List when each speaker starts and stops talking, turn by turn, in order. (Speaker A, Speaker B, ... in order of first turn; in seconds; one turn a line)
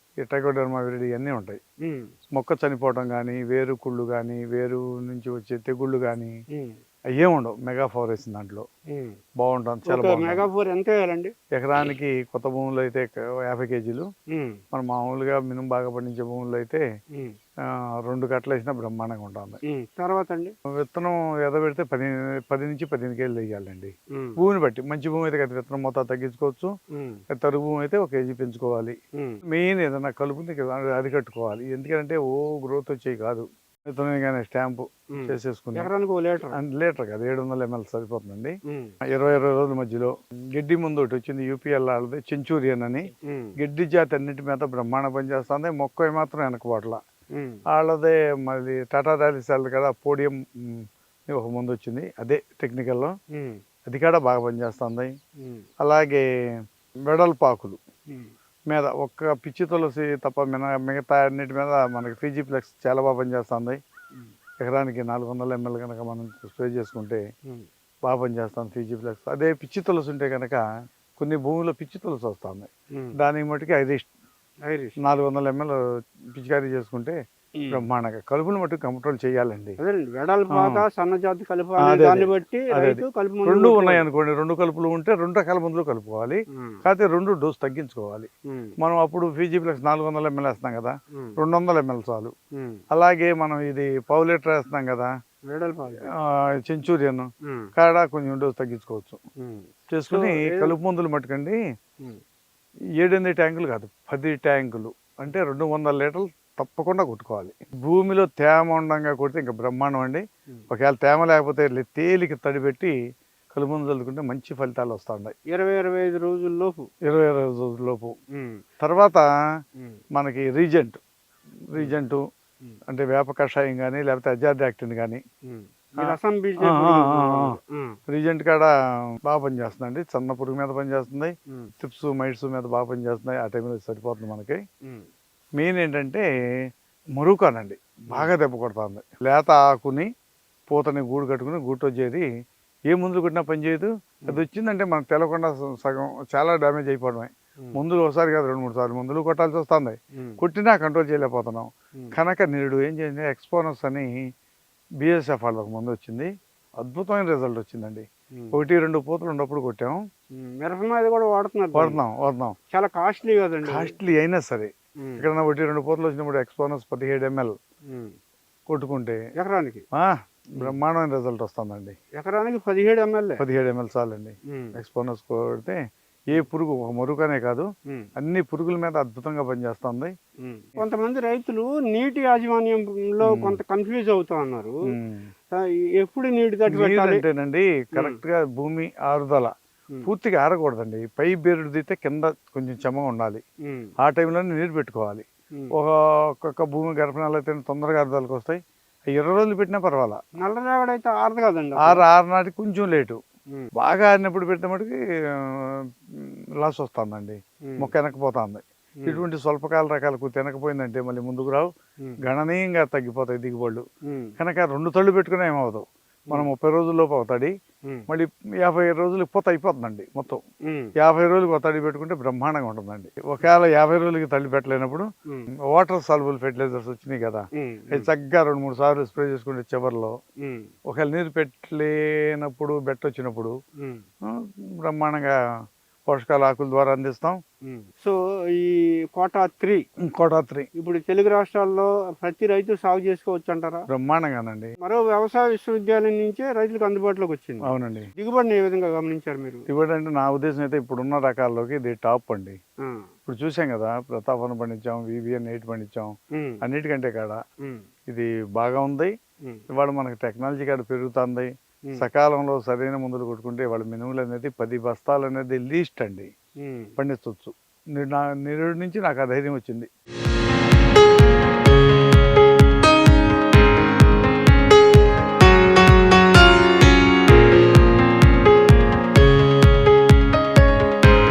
Speaker A: 0.2-1.6
Speaker B: 1.8-2.1
Speaker A: 2.3-6.3
Speaker A: 7.1-8.7
Speaker B: 8.9-9.2
Speaker A: 9.4-10.5
Speaker B: 9.9-11.3
Speaker A: 11.5-14.1
Speaker B: 14.3-14.6
Speaker A: 14.7-16.8
Speaker A: 17.7-19.6
Speaker B: 19.7-20.5
Speaker A: 20.7-26.7
Speaker B: 24.1-24.4
Speaker B: 26.9-27.2
Speaker A: 27.3-29.0
Speaker A: 29.5-35.9
Speaker B: 35.1-36.5
Speaker A: 36.5-38.6
Speaker B: 38.7-38.9
Speaker A: 39.1-47.0
Speaker B: 43.3-43.5
Speaker B: 47.3-47.6
Speaker A: 47.7-53.1
Speaker B: 53.3-53.6
Speaker A: 53.9-55.1
Speaker A: 55.8-56.2
Speaker A: 57.0-57.8
Speaker A: 58.7-63.8
Speaker A: 64.6-67.2
Speaker A: 68.0-70.6
Speaker A: 71.2-74.1
Speaker B: 74.7-74.9
Speaker A: 75.0-75.8
Speaker A: 76.3-77.2
Speaker B: 77.6-77.8
Speaker A: 77.7-79.8
Speaker B: 79.8-84.0
Speaker A: 80.5-80.8
Speaker A: 81.8-92.3
Speaker B: 86.5-86.8
Speaker B: 88.5-88.7
Speaker B: 92.5-92.8
Speaker A: 92.9-95.1
Speaker B: 95.5-96.1
Speaker A: 96.2-99.2
Speaker B: 97.4-97.7
Speaker B: 99.4-100.8
Speaker A: 99.9-101.6
Speaker A: 103.0-112.9
Speaker A: 113.5-115.3
Speaker B: 115.5-116.9
Speaker A: 117.0-118.1
Speaker B: 118.3-118.6
Speaker A: 118.8-119.2
Speaker A: 120.1-121.0
Speaker A: 121.7-122.2
Speaker A: 122.9-125.2
Speaker B: 125.5-128.0
Speaker A: 126.0-128.7
Speaker A: 129.2-134.6
Speaker A: 135.6-136.2
Speaker A: 137.2-140.1
Speaker A: 140.7-142.2
Speaker A: 142.9-154.1
Speaker A: 155.0-160.0
Speaker B: 160.3-162.0
Speaker A: 161.7-162.6
Speaker B: 162.7-163.9
Speaker A: 163.6-167.6
Speaker B: 167.9-168.2
Speaker A: 168.7-169.2
Speaker B: 169.3-169.8
Speaker A: 169.9-171.9
Speaker B: 172.2-173.4
Speaker A: 173.4-175.8
Speaker A: 176.3-180.1
Speaker B: 180.4-184.8
Speaker A: 183.2-183.6
Speaker A: 184.9-185.3
Speaker B: 185.6-187.2
Speaker A: 186.7-189.5
Speaker A: 190.0-193.4
Speaker A: 194.0-198.6
Speaker A: 199.1-200.2
Speaker B: 200.4-202.0
Speaker A: 201.8-203.2
Speaker A: 203.8-211.7
Speaker A: 212.2-213.8
Speaker B: 214.1-214.3
Speaker A: 214.4-217.5
Speaker A: 218.1-220.4
Speaker B: 220.6-220.9
Speaker A: 221.0-225.1
Speaker A: 225.7-230.1
Speaker B: 227.6-228.1
Speaker B: 230.4-230.7
Speaker A: 230.9-233.5
Speaker A: 234.2-235.3
Speaker A: 236.1-237.4
Speaker B: 237.7-239.8
Speaker A: 240.0-240.7
Speaker B: 240.8-243.8
Speaker A: 243.9-244.7
Speaker B: 244.8-249.7
Speaker A: 247.7-248.1
Speaker A: 249.7-252.6
Speaker A: 253.3-257.4
Speaker B: 256.3-256.6
Speaker A: 258.1-259.1
Speaker A: 259.7-266.3
Speaker B: 266.6-266.9
Speaker A: 267.0-269.9